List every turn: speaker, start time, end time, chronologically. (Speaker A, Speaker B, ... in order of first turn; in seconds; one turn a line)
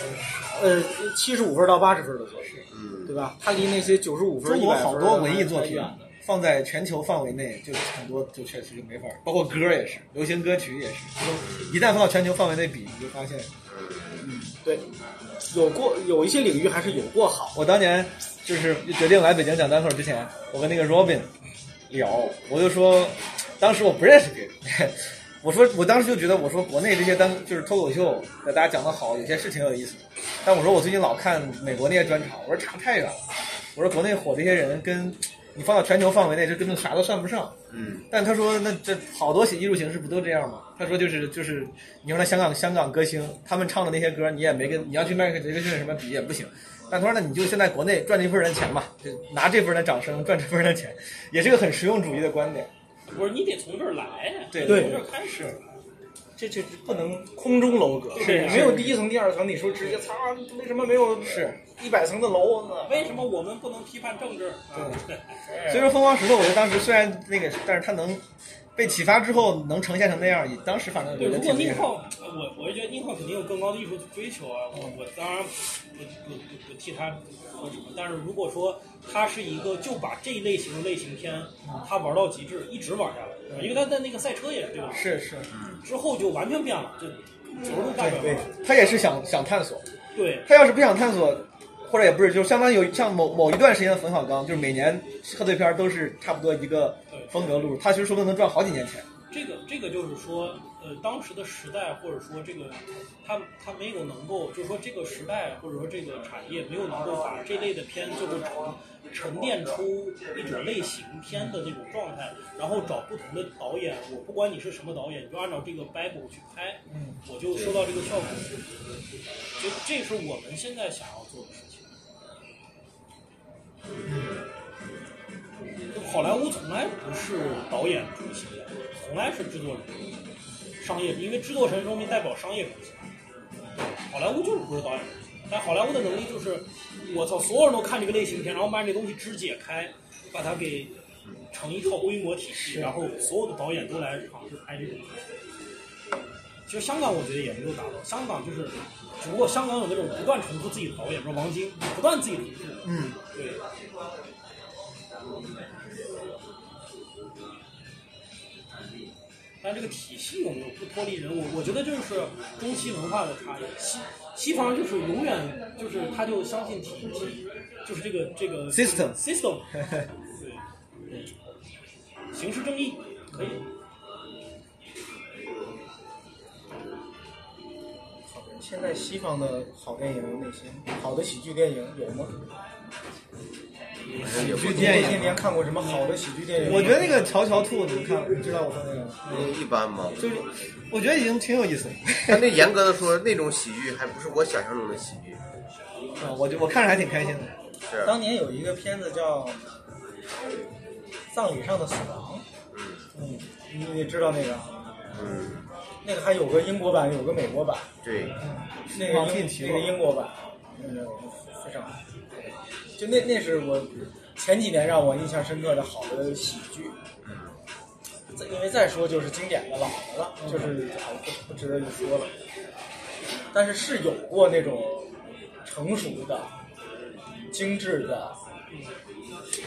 Speaker A: 0.5-6.1
Speaker B: 2.7-3.1
Speaker C: 4.4-13.5
Speaker B: 11.4-11.7
Speaker B: 13.7-14.2
Speaker A: 14.2-14.9
Speaker A: 15.5-17.6
Speaker C: 17.5-21.3
Speaker C: 21.9-37.5
Speaker B: 37.7-38.1
Speaker C: 38.1-52.7
Speaker D: 53.1-55.7
Speaker C: 54.5-55.1
Speaker A: 54.6-55.0
Speaker A: 56.4-63.1
Speaker D: 58.1-58.9
Speaker C: 58.2-59.0
Speaker C: 61.2-61.6
Speaker D: 62.9-65.8
Speaker C: 64.7-68.2
Speaker C: 68.8-71.9
Speaker D: 71.2-85.2
Speaker C: 81.6-81.9
Speaker C: 83.5-83.8
Speaker C: 84.9-85.5
Speaker B: 85.5-85.8
Speaker D: 85.8-88.5
Speaker C: 88.0-89.9
Speaker D: 90.2-90.5
Speaker C: 90.5-99.1
Speaker D: 99.3-118.7
Speaker C: 116.9-117.2
Speaker D: 119.6-121.9
Speaker C: 124.0-124.4
Speaker D: 125.9-130.1
Speaker D: 130.8-133.1
Speaker D: 134.1-141.0
Speaker D: 141.5-145.2
Speaker D: 146.7-153.6
Speaker C: 152.8-153.2
Speaker D: 159.6-169.7
Speaker C: 168.7-169.2
Speaker C: 169.8-170.1
Speaker D: 170.3-170.6
Speaker D: 172.3-173.6
Speaker A: 178.3-182.3
Speaker D: 184.1-185.0
Speaker B: 184.2-185.3
Speaker A: 184.2-187.3
Speaker C: 184.4-185.4
Speaker D: 185.8-187.4
Speaker C: 186.6-188.5
Speaker A: 188.3-189.2
Speaker C: 189.2-189.5
Speaker B: 189.3-190.2
Speaker C: 190.2-192.7
Speaker B: 192.3-195.4
Speaker C: 196.2-197.5
Speaker B: 197.9-198.2
Speaker A: 198.0-199.7
Speaker A: 201.3-202.5
Speaker B: 202.7-203.1
Speaker C: 203.2-203.4
Speaker A: 203.7-204.8
Speaker B: 205.1-205.7
Speaker A: 206.0-207.9
Speaker B: 208.0-208.4
Speaker C: 208.4-210.0
Speaker A: 208.9-212.0
Speaker A: 213.0-217.0
Speaker B: 217.2-217.6
Speaker A: 218.3-222.3
Speaker A: 223.5-226.5
Speaker A: 227.5-228.4
Speaker D: 228.7-229.0